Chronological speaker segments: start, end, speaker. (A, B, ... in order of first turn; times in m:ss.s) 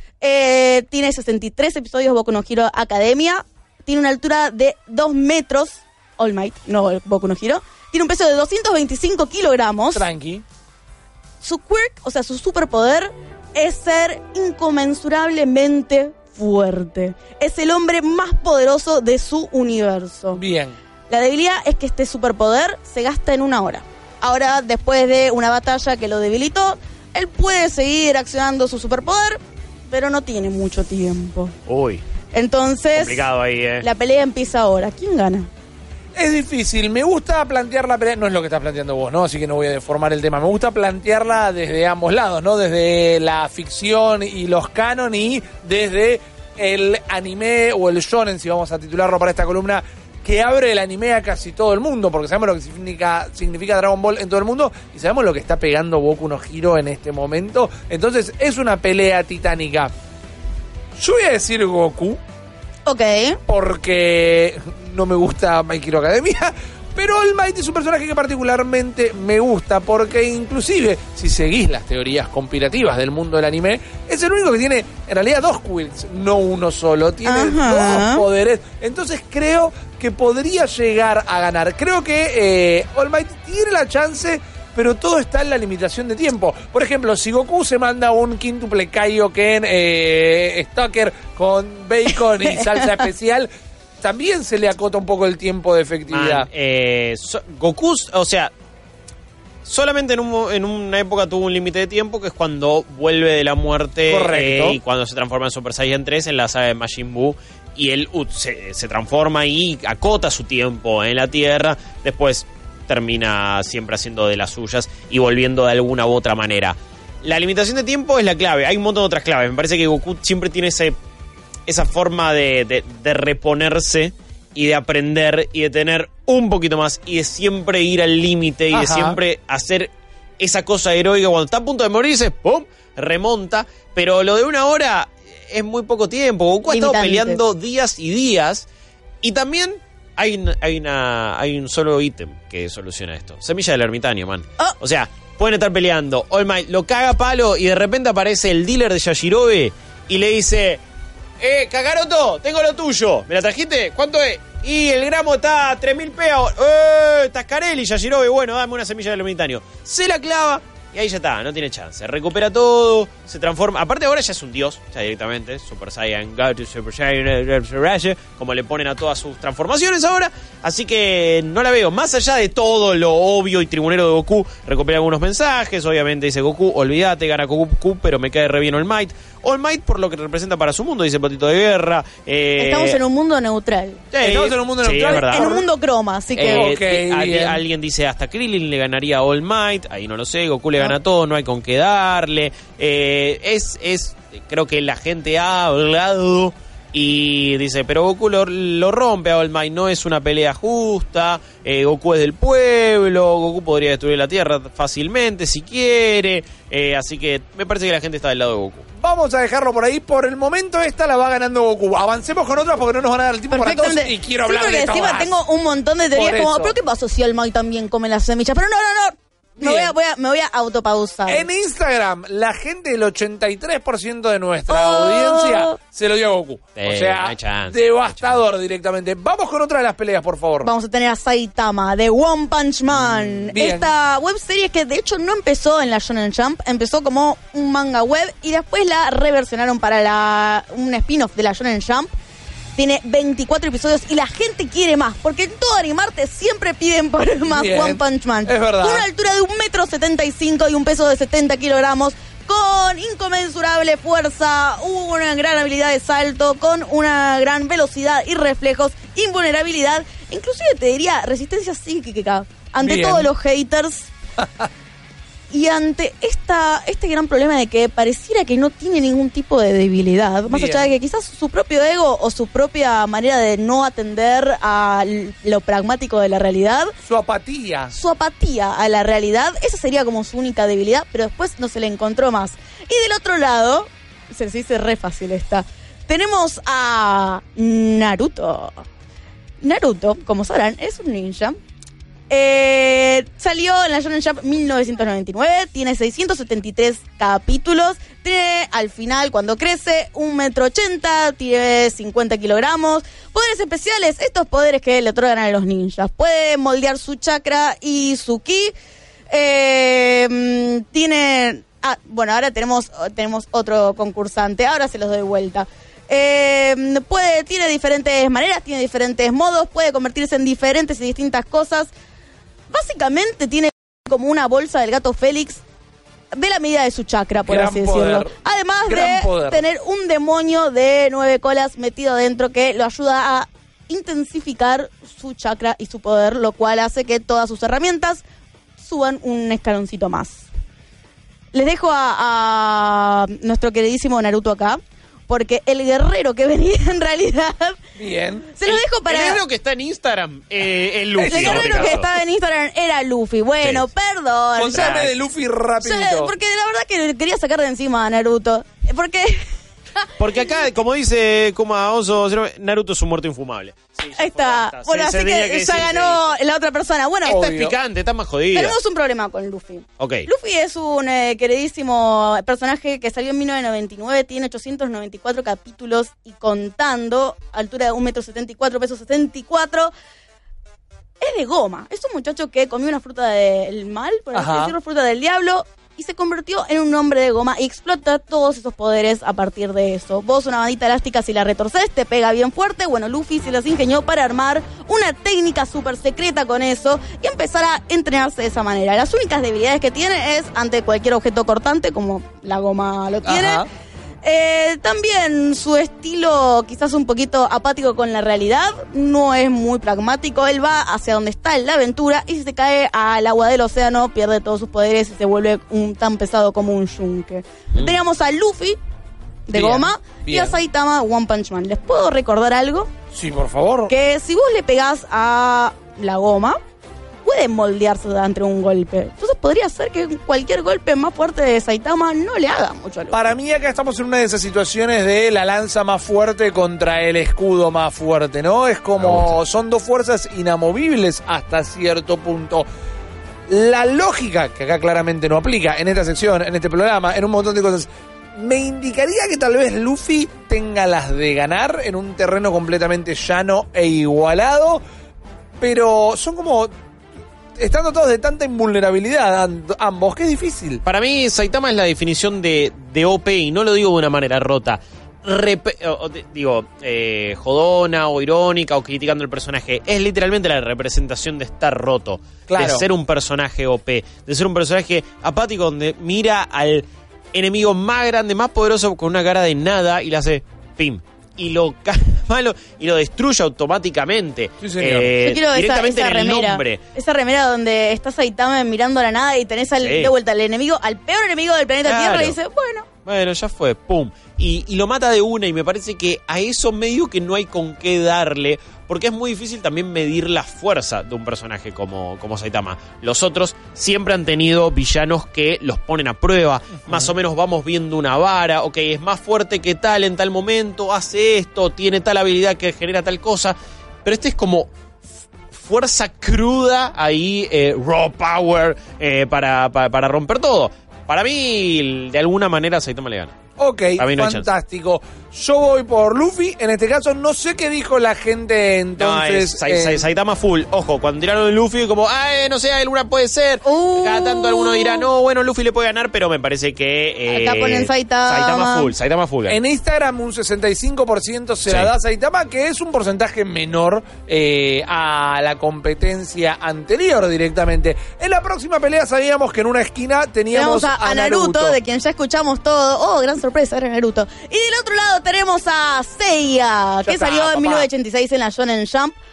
0:00.2-0:10.0 A
0:09.9-0:10.4 B
0:11.4-0:20.4 A
0:20.3-0:20.8 B
0:21.1-0:31.5 A
0:31.7-0:32.0 C
0:32.3-0:33.2 A
0:32.9-0:33.8 C
0:33.8-0:35.5 A
0:36.1-0:59.9 B
1:01.0-1:02.2 B
1:02.8-1:03.4 A
1:03.5-1:33.5 B
1:17.2-1:18.2 A
1:32.4-1:33.0 A
1:34.0-1:36.5 B
1:36.1-1:38.5 C
1:39.6-2:00.9 C
1:44.1-1:44.8 B
2:01.7-2:18.6 C
2:08.7-2:09.2 B
2:16.7-2:17.4 A
2:19.2-2:30.8 C
2:31.4-3:03.0 C
3:02.6-3:04.0 A
3:04.1-3:05.5 C
3:04.2-3:05.7 B
3:05.0-3:06.7 A
3:06.4-3:07.6 B
3:06.4-3:28.8 C
3:29.0-3:35.4 B
3:33.5-3:41.4 A
3:36.1-3:36.7 B
3:39.6-3:39.9 B
3:41.3-3:50.7 B
3:44.7-3:45.8 A
3:46.8-3:48.4 C
3:50.6-4:02.1 A
3:53.1-3:53.5 C
3:53.5-3:53.9 B
4:02.8-4:24.1 A
4:07.5-4:09.0 B
4:22.8-4:23.3 B
4:24.4-4:24.7 B
4:25.5-4:36.9 A
4:30.5-4:30.9 B
4:37.0-4:37.9 B
4:37.9-4:48.8 A
4:49.6-4:51.6 A
4:52.3-5:08.7 A
5:09.3-5:21.9 A
5:22.7-5:25.6 A
5:26.3-5:38.2 A
5:27.4-5:28.3 B
5:28.8-5:29.6 B
5:38.8-5:40.4 A
5:41.5-5:47.8 A
5:48.0-5:48.5 B
5:48.5-5:49.4 A
5:48.6-5:52.1 C
5:51.1-5:52.0 B
5:51.2-5:55.0 A
5:53.6-5:53.9 C
5:54.6-5:56.3 B
5:54.7-5:55.1 C
5:55.8-5:59.4 A
6:00.0-6:00.5 A
6:00.2-6:06.3 C
6:04.2-6:07.4 A
6:07.2-6:07.7 B
6:07.2-6:08.8 C
6:08.5-6:19.9 A
6:10.0-6:10.3 C
6:21.2-6:43.6 A
6:24.3-6:24.7 B
6:43.2-6:43.6 B
6:44.2-6:58.8 A
6:59.5-7:02.9 A
6:59.5-7:00.6 B
7:03.1-7:03.9 B
7:03.9-7:06.6 A
7:07.2-7:13.3 A
7:13.1-7:22.6 B
7:19.0-7:19.3 C
7:23.5-7:34.8 B
7:35.6-7:36.7 B
7:37.6-7:40.8 B
7:40.8-8:06.8 C
7:52.5-7:52.8 B
8:04.6-8:05.2 B
8:05.2-8:12.8 A
8:09.8-8:10.1 C
8:11.8-8:12.4 C
8:13.0-8:34.7 C
8:26.9-8:27.1 B
8:35.5-8:43.3 C
8:43.6-8:50.1 B
8:44.0-8:44.5 C
8:49.0-8:59.6 C
8:53.6-8:55.1 A
8:57.3-8:58.9 A
8:59.5-9:11.8 B
9:01.7-9:01.9 C
9:10.5-9:19.2 A
9:17.0-9:17.8 B